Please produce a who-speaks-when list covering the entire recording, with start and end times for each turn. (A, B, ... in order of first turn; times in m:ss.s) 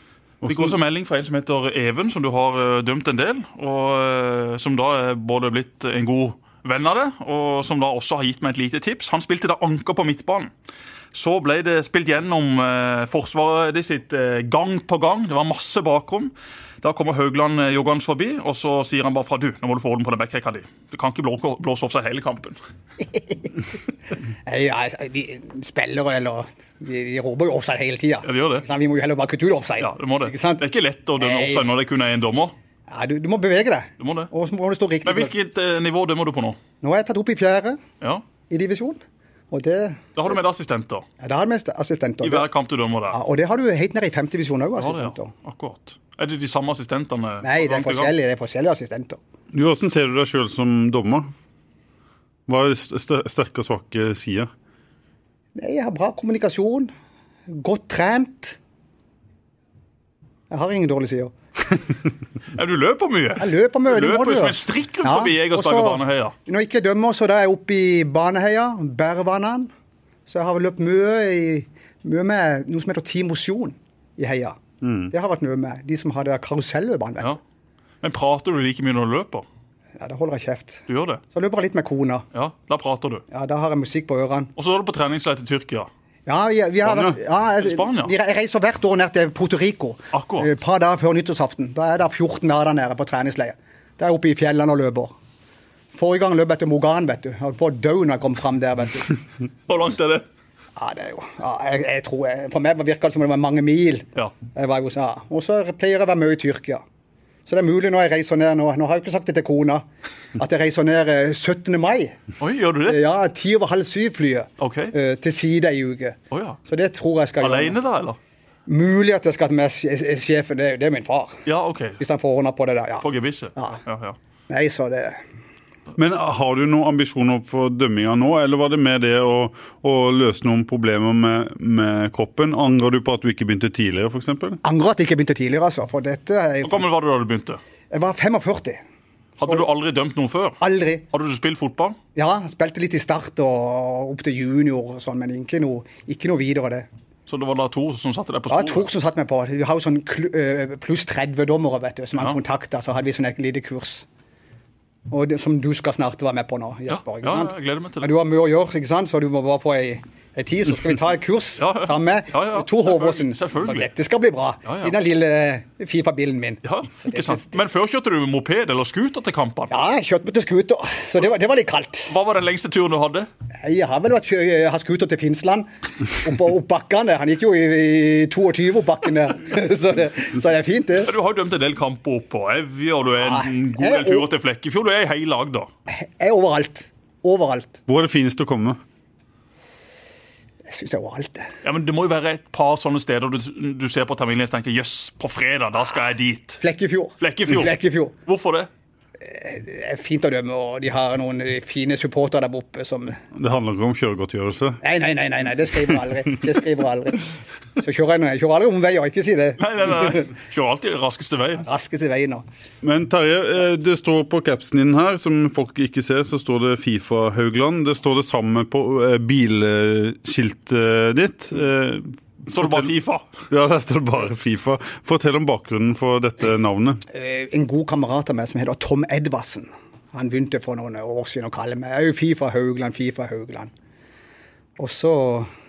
0:00.4-0:00.8 A
0:00.4-0:10.5 B
0:11.1-0:22.6 B
0:24.4-0:30.6 C
0:28.2-0:28.6 B
0:29.8-0:32.5 B
0:31.2-0:31.7 C
0:32.9-0:35.3 C
0:34.0-0:34.3 B
0:35.0-0:36.6 B
0:36.8-0:37.8 C
0:38.5-0:39.0 C
0:39.5-0:40.1 C
0:40.1-0:41.0 B
0:41.2-0:42.5 C
0:42.2-0:43.2 B
0:43.1-0:45.3 C
0:44.8-0:48.1 B
0:47.4-0:49.2 C
0:49.5-0:51.3 A
0:52.5-0:54.5 A
0:55.6-0:56.9 C
0:57.5-0:58.6 C
1:00.5-1:01.3 C
1:02.5-1:06.3 B
1:03.4-1:09.7 C
1:10.3-1:14.6 C
1:14.8-1:15.1 A
1:15.1-1:17.4 C
1:18.0-1:19.4 B
1:20.0-1:22.2 C
1:20.9-1:21.2 B
1:22.3-1:23.2 B
1:23.3-1:24.5 C
1:24.6-1:25.9 B
1:26.2-1:35.1 C
1:27.6-1:28.1 B
1:30.1-1:30.5 B
1:35.9-1:39.2 C
1:39.7-1:40.2 B
1:40.8-1:46.8 C
1:47.5-1:49.8 C
1:50.4-1:52.2 C
1:52.4-1:53.0 B
1:52.8-1:57.8 C
1:54.6-1:54.9 B
1:56.3-1:56.6 B
1:57.4-1:58.2 B
1:58.7-2:01.4 C
2:01.4-2:02.0 B
2:02.0-2:03.8 C
2:03.0-2:04.2 B
2:04.5-2:05.2 C
2:06.0-2:14.6 A
2:14.6-2:16.8 C
2:16.6-2:17.6 B
2:17.9-2:18.8 C
2:19.4-2:20.6 B
2:20.6-2:21.0 C
2:21.1-2:22.0 B
2:22.1-2:26.9 C
2:27.3-2:28.9 B
2:28.5-2:34.1 C
2:35.1-2:47.6 C
2:36.9-2:38.1 B
2:41.6-2:43.9 B
2:44.6-2:44.9 B
2:46.6-2:49.7 B
2:49.7-2:52.1 C
2:52.1-2:53.3 B
2:53.6-3:01.1 C
3:01.0-3:05.7 B
3:03.2-3:04.3 C
3:05.9-3:07.8 C
3:07.9-3:08.8 A
3:10.7-3:11.5 C
3:11.6-3:16.6 B
3:16.6-3:18.1 C
3:17.2-3:17.7 B
3:18.2-3:18.7 B
3:19.2-3:23.2 C
3:23.3-3:24.8 A
3:24.8-3:30.2 C
3:29.6-3:31.6 B
3:31.6-3:32.4 C
3:32.8-3:42.9 A
3:42.5-3:43.2 B
3:43.5-3:47.0 A
3:47.1-3:53.7 C
3:54.8-3:55.5 C